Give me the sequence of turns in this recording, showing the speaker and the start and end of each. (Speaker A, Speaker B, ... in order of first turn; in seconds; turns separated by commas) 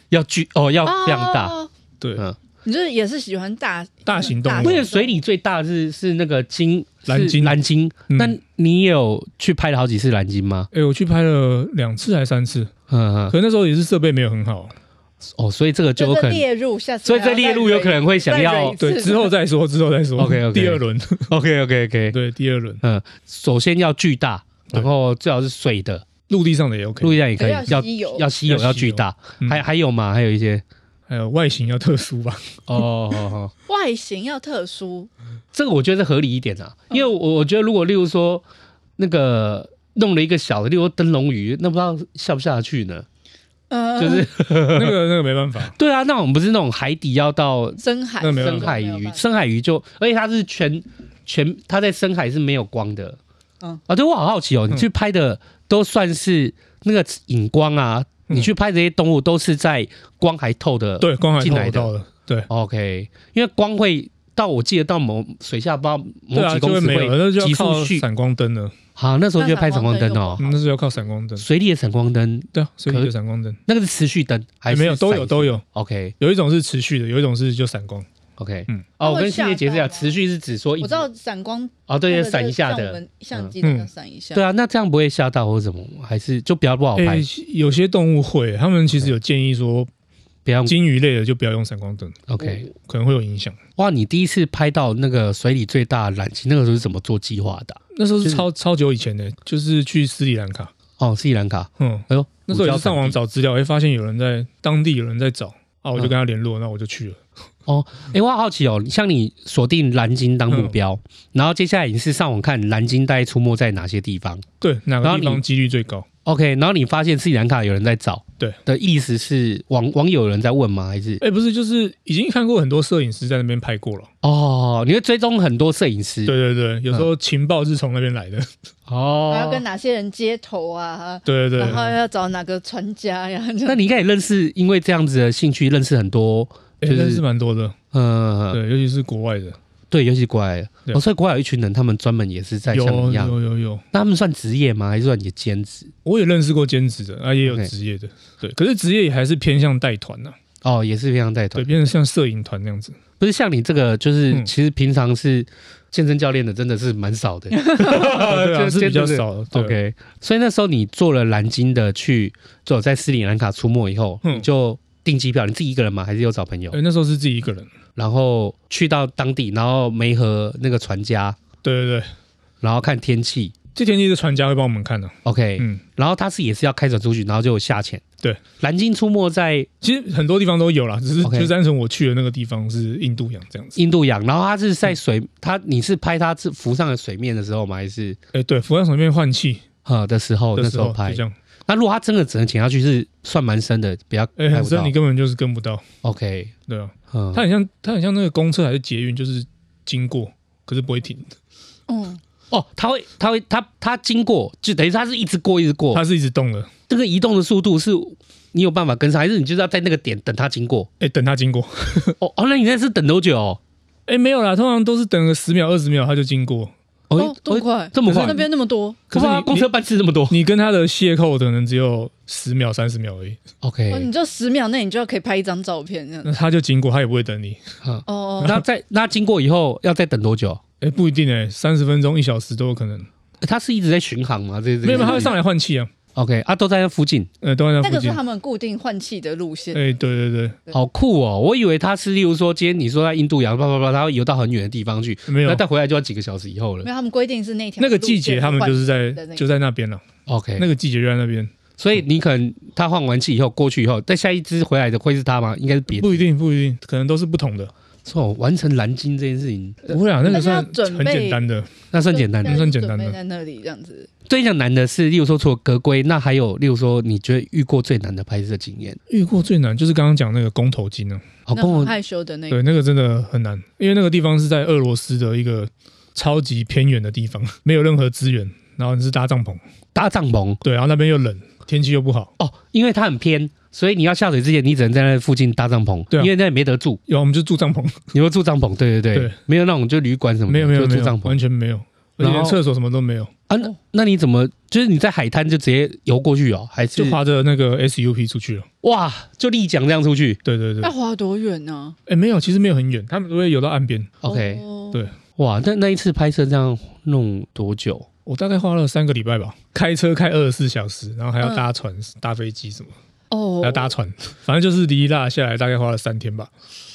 Speaker A: 0.1-1.5, Speaker B: 0.8-1.7, Speaker B: 2.6-5.2, Speaker C: 4.0-4.8, Speaker A: 4.6-10.7, Speaker C: 7.1-7.6, Speaker C: 8.1-8.3, Speaker C: 10.7-12.7, Speaker A: 12.9-13.3, Speaker C: 13.3-14.7, Speaker A: 15.3-16.4, Speaker B: 16.0-19.3, Speaker A: 17.0-18.8, Speaker C: 18.8-21.3, Speaker A: 20.2-22.2, Speaker C: 22.1-22.8, Speaker A: 22.8-26.1, Speaker C: 26.3-27.2, Speaker A: 27.0-30.6, Speaker B: 27.4-28.2, Speaker C: 28.4-29.6, Speaker C: 31.1-32.8, Speaker A: 32.7-33.5, Speaker B: 33.7-35.1, Speaker A: 35.5-38.4, Speaker A: 39.0-43.0, Speaker B: 43.7-44.3, Speaker A: 44.0-45.0, Speaker C: 44.7-45.8, Speaker A: 45.7-53.2, Speaker B: 47.8-49.2, Speaker C: 48.2-48.7, Speaker A: 53.9-61.9, Speaker C: 61.0-62.5, Speaker A: 62.5-68.0, Speaker C: 66.3-68.8, Speaker A: 69.0-70.5, Speaker B: 69.4-70.4, Speaker C: 70.4-71.4, Speaker A: 71.4-73.1, Speaker C: 72.5-73.6, Speaker A: 73.7-76.1, Speaker C: 74.7-75.6, Speaker C: 76.2-78.1, Speaker A: 78.4-81.0, Speaker B: 79.0-80.1, Speaker B: 80.8-84.4, Speaker A: 81.9-83.5, Speaker C: 83.6-83.9, Speaker A: 84.3-87.2, Speaker C: 87.0-89.9, Speaker A: 90.5-90.8, Speaker C: 90.7-93.6, Speaker A: 92.3-92.7, Speaker A: 93.8-98.4, Speaker C: 97.9-100.7, Speaker A: 101.0-103.2, Speaker C: 101.8-107.2, Speaker A: 107.7-114.5, Speaker C: 110.5-110.7, Speaker C: 114.6-116.1, Speaker A: 115.0-115.4, Speaker A: 116.2-121.2, Speaker C: 121.2-124.1, Speaker A: 124.2-126.3, Speaker C: 126.2-128.5, Speaker A: 128.9-129.6, Speaker B: 129.3-133.8, Speaker C: 131.2-131.9, Speaker A: 131.6-131.8, Speaker A: 133.7-137.2, Speaker C: 136.8-137.8, Speaker A: 137.9-138.6, Speaker C: 138.5-139.6, Speaker A: 139.9-143.4, Speaker C: 142.7-143.8, Speaker A: 143.9-145.9, Speaker C: 146.0-150.3, Speaker A: 147.4-147.7, Speaker A: 150.6-151.7, Speaker C: 151.5-153.0, Speaker A: 153.2-166.8, Speaker B: 157.6-157.9, Speaker C: 157.9-159.8, Speaker C: 166.7-167.7, Speaker A: 167.9-171.4, Speaker C: 171.6-172.1, Speaker A: 172.6-173.6, Speaker C: 173.7-175.8, Speaker A: 175.2-178.0, Speaker A: 178.6-179.7, Speaker C: 179.8-183.8, Speaker A: 181.2-181.5, Speaker A: 183.8-188.2, Speaker C: 188.3-189.6, Speaker A: 189.8-194.9, Speaker C: 190.6-191.3, Speaker C: 194.4-195.8, Speaker A: 196.0-196.5, Speaker C: 196.7-201.3, Speaker A: 197.1-197.4, Speaker B: 201.9-202.2, Speaker A: 202.5-206.0, Speaker C: 205.9-206.7, Speaker A: 206.9-210.9, Speaker C: 211.0-212.2, Speaker A: 212.2-213.6, Speaker C: 214.1-216.7, Speaker A: 217.1-218.4, Speaker B: 217.2-219.0, Speaker C: 218.0-218.4, Speaker C: 219.1-219.7, Speaker A: 219.1-220.4, Speaker C: 220.3-223.4, Speaker A: 223.6-224.1, Speaker B: 223.9-226.3, Speaker C: 226.2-227.6, Speaker A: 227.8-230.6, Speaker B: 228.1-228.6, Speaker C: 230.8-233.1, Speaker A: 233.4-235.3, Speaker C: 234.8-235.9, Speaker B: 234.9-235.3, Speaker A: 236.1-237.3, Speaker C: 237.4-238.2, Speaker B: 237.8-239.8, Speaker C: 239.7-240.6, Speaker A: 240.7-246.9, Speaker C: 245.3-245.6, Speaker B: 246.8-249.4, Speaker C: 247.8-250.0, Speaker A: 250.3-250.7, Speaker C: 250.6-251.5, Speaker A: 251.8-256.2, Speaker C: 255.9-257.7, Speaker A: 258.0-260.0, Speaker C: 259.9-261.7, Speaker B: 260.2-261.4, Speaker A: 261.9-262.6, Speaker B: 262.1-264.1, Speaker C: 262.4-263.2, Speaker A: 264.3-269.0, Speaker C: 269.1-271.4, Speaker A: 271.5-271.9, Speaker B: 271.5-272.6, Speaker C: 272.5-279.6, Speaker A: 279.9-280.6, Speaker C: 280.6-282.3, Speaker A: 282.4-287.0, Speaker C: 287.1-288.1, Speaker A: 288.1-291.4, Speaker C: 290.5-293.3, Speaker A: 292.2-292.6, Speaker A: 293.5-297.2, Speaker C: 296.9-298.7, Speaker A: 298.8-300.4, Speaker C: 300.4-300.9, Speaker B: 300.8-301.9, Speaker C: 302.1-304.2, Speaker A: 304.2-304.6, Speaker B: 304.2-305.0, Speaker A: 305.4-308.1, Speaker C: 308.2-312.9, Speaker B: 311.4-311.7, Speaker B: 313.3-313.9, Speaker C: 313.6-316.5